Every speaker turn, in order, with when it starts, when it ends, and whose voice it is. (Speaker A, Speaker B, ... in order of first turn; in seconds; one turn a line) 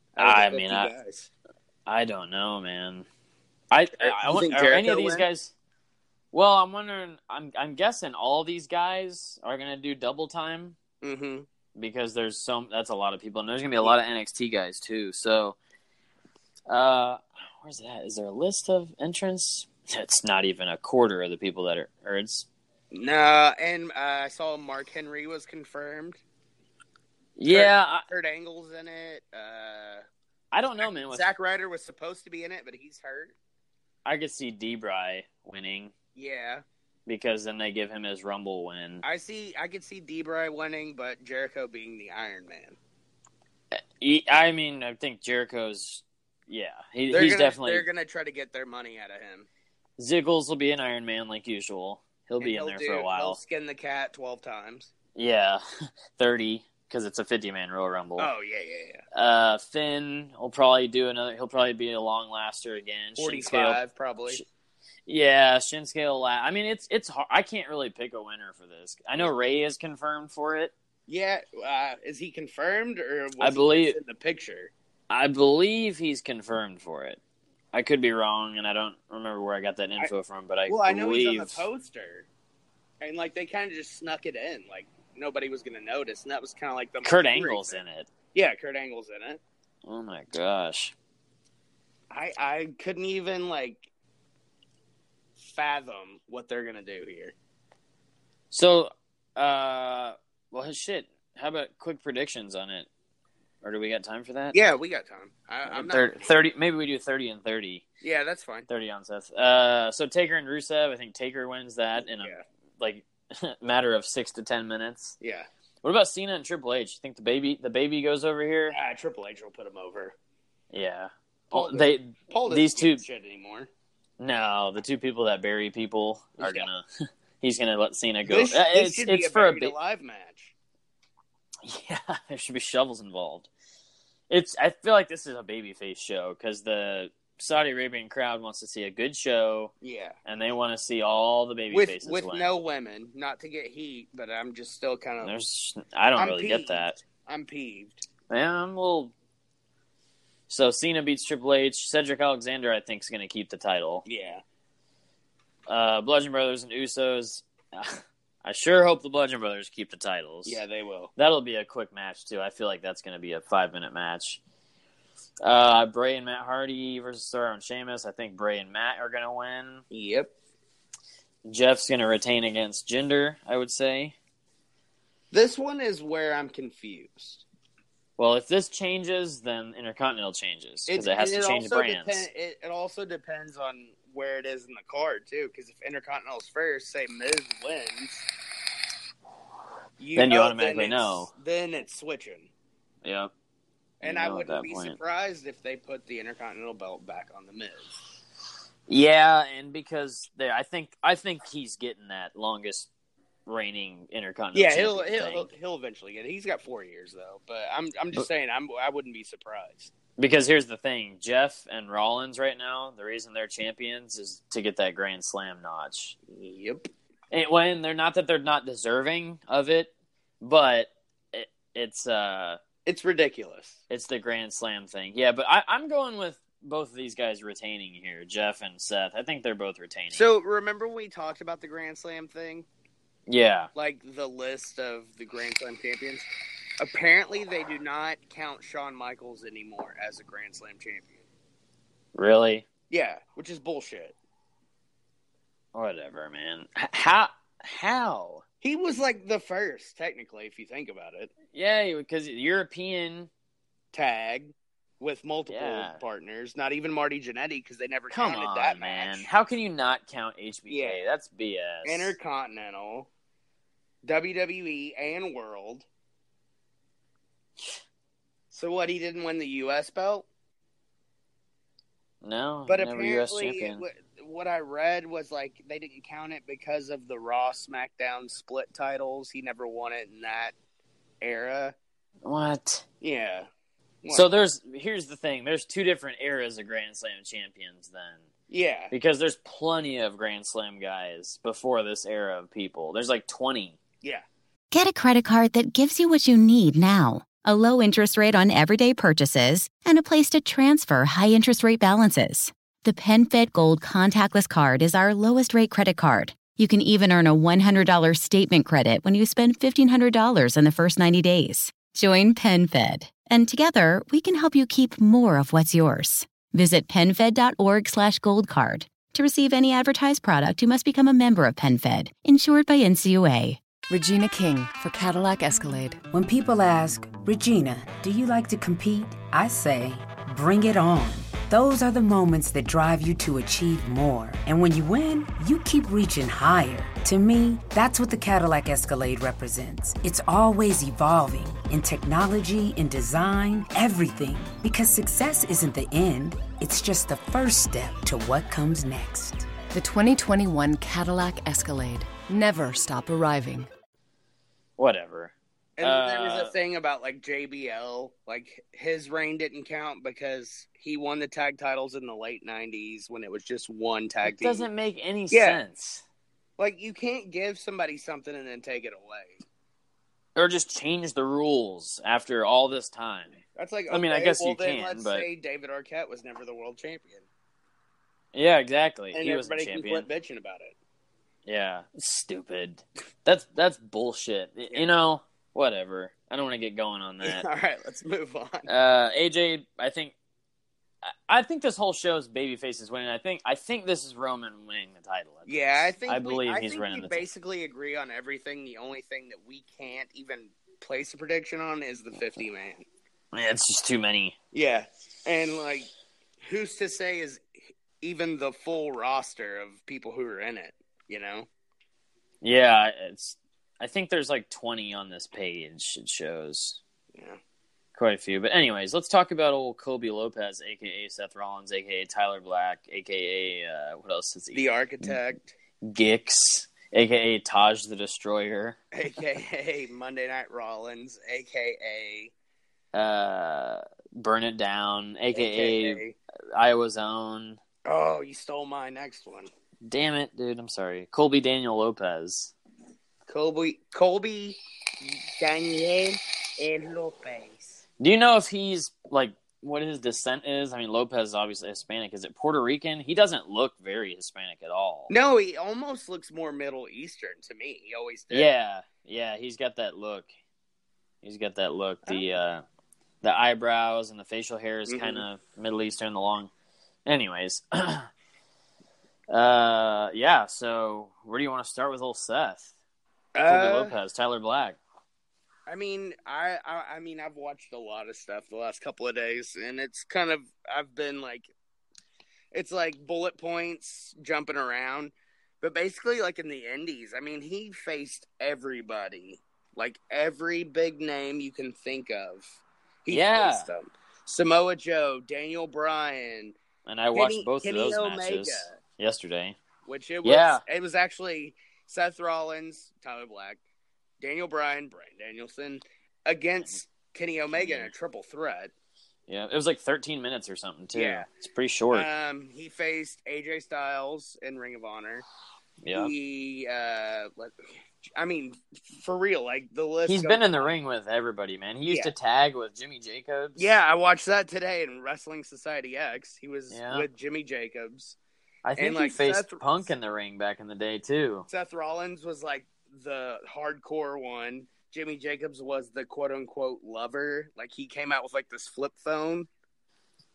Speaker A: 0.1-1.3
Speaker B: 0.2-0.9
Speaker B: 1.9-3.1
Speaker B: 3.7-5.5
Speaker A: 4.0-5.2
Speaker B: 6.3-10.8
Speaker A: 11.0-11.5
Speaker B: 11.8-15.6
Speaker B: 16.7-22.5
Speaker A: 22.9-26.2
Speaker B: 27.4-28.1
Speaker A: 27.5-30.1
Speaker B: 30.5-31.3
Speaker A: 30.9-33.4
Speaker B: 34.0-35.9
Speaker A: 36.1-36.6
Speaker B: 37.1-39.0
Speaker A: 39.0-42.8
Speaker B: 43.7-47.9
Speaker A: 47.1-49.5
Speaker B: 50.0-53.4
Speaker A: 52.4-54.9
Speaker B: 55.1-58.3
Speaker A: 58.2-59.0
Speaker B: 59.1-64.4
Speaker A: 63.2-64.4
Speaker B: 65.1-70.7
Speaker A: 71.1-74.7
Speaker B: 73.4-74.0
Speaker B: 75.1-77.2
Speaker B: 77.7-81.7
Speaker A: 80.7-82.3
Speaker A: 83.0-87.8
Speaker B: 87.0-88.1
Speaker A: 88.3-89.4
Speaker B: 89.9-90.9
Speaker A: 92.1-93.9
Speaker A: 95.4-97.3
Speaker B: 98.5-102.9
Speaker B: 103.6-104.6
Speaker A: 104.5-106.3
Speaker B: 105.7-107.8
Speaker A: 108.0-108.7
Speaker B: 108.7-115.2
Speaker A: 112.1-112.4
Speaker A: 115.2-115.5
Speaker B: 115.8-118.8
Speaker A: 118.7-120.2
Speaker B: 120.7-123.0
Speaker A: 121.5-123.7
Speaker B: 124.2-126.9
Speaker A: 126.4-126.7
Speaker B: 127.4-129.8
Speaker A: 128.3-130.5
Speaker B: 131.6-133.5
Speaker B: 134.3-139.7
Speaker A: 139.8-140.2
Speaker B: 140.3-142.5
Speaker A: 141.7-145.3
Speaker B: 145.2-147.0
Speaker A: 146.2-148.0
Speaker B: 148.3-149.1
Speaker B: 150.5-154.1
Speaker A: 154.1-154.4
Speaker B: 155.7-160.6
Speaker A: 160.5-161.1
Speaker B: 161.2-164.4
Speaker B: 165.4-169.8
Speaker A: 169.9-170.3
Speaker B: 171.4-174.2
Speaker A: 175.3-177.4
Speaker B: 178.2-182.3
Speaker A: 180.9-188.2
Speaker A: 190.0-192.5
Speaker B: 190.2-191.3
Speaker B: 193.0-193.3
Speaker A: 194.0-198.0
Speaker B: 194.0-195.0
Speaker B: 198.9-202.9
Speaker B: 203.5-205.5
Speaker A: 204.6-209.9
Speaker B: 210.2-216.2
Speaker A: 216.3-216.9
Speaker B: 217.3-222.6
Speaker A: 222.8-223.8
Speaker B: 223.9-230.3
Speaker A: 230.1-232.7
Speaker B: 233.3-233.7
Speaker A: 233.8-236.3
Speaker A: 236.8-241.3
Speaker B: 242.2-242.7
Speaker A: 242.9-244.2
Speaker B: 245.7-248.4
Speaker A: 248.6-251.3
Speaker B: 251.5-253.3
Speaker A: 253.9-259.3
Speaker B: 255.5-256.0
Speaker B: 258.1-262.2
Speaker A: 260.7-261.0
Speaker A: 261.9-263.1
Speaker A: 264.0-265.9
Speaker A: 268.5-270.3
Speaker B: 272.2-273.8
Speaker A: 272.7-280.5
Speaker A: 281.2-281.8
Speaker B: 282.2-282.9
Speaker A: 283.0-283.5
Speaker B: 284.1-288.2
Speaker A: 288.5-288.9
Speaker B: 288.9-293.8
Speaker C: 294.7-323.6
Speaker D: 323.9-326.0
Speaker E: 326.1-349.5
Speaker D: 349.7-353.7
Speaker B: 354.8-356.5
Speaker A: 355.8-364.6
Speaker B: 364.2-366.0
Speaker A: 365.3-365.6
Speaker A: 366.6-369.4
Speaker B: 370.4-375.3
Speaker A: 373.6-377.3
Speaker B: 378.3-380.1
Speaker A: 379.1-380.8
Speaker B: 381.5-387.4
Speaker A: 387.2-388.7
Speaker B: 388.7-390.1
Speaker B: 391.0-397.2
Speaker A: 395.5-402.9
Speaker B: 403.3-404.4
Speaker A: 404.5-405.9
Speaker A: 406.4-407.5
Speaker A: 408.0-411.5
Speaker B: 412.4-416.8
Speaker B: 417.9-425.2
Speaker A: 424.5-425.5
Speaker B: 425.8-428.8
Speaker A: 428.9-432.3
Speaker B: 432.9-436.0
Speaker A: 435.3-436.1
Speaker B: 436.6-437.6
Speaker A: 437.9-439.5
Speaker B: 439.8-442.5
Speaker A: 443.3-447.8
Speaker B: 448.0-455.1
Speaker A: 455.1-458.5
Speaker B: 458.3-460.3
Speaker B: 461.2-462.6
Speaker B: 463.2-466.5
Speaker A: 464.9-465.2
Speaker B: 467.1-468.1
Speaker B: 469.3-472.7
Speaker A: 473.3-473.9
Speaker B: 473.4-474.8
Speaker A: 475.7-481.5
Speaker A: 482.5-492.5
Speaker A: 493.1-496.6
Speaker B: 493.1-493.7
Speaker B: 496.9-499.6
Speaker A: 497.1-498.8
Speaker A: 499.9-503.6
Speaker B: 500.2-500.6
Speaker A: 504.2-508.7
Speaker B: 507.6-507.9
Speaker B: 509.3-512.1
Speaker A: 510.9-511.2
Speaker A: 511.9-515.3
Speaker B: 515.8-516.1
Speaker A: 515.9-517.6
Speaker A: 518.1-520.7
Speaker B: 520.1-523.7
Speaker A: 523.6-528.2
Speaker B: 526.7-527.1
Speaker B: 528.6-531.5
Speaker A: 528.8-529.9
Speaker A: 531.5-539.5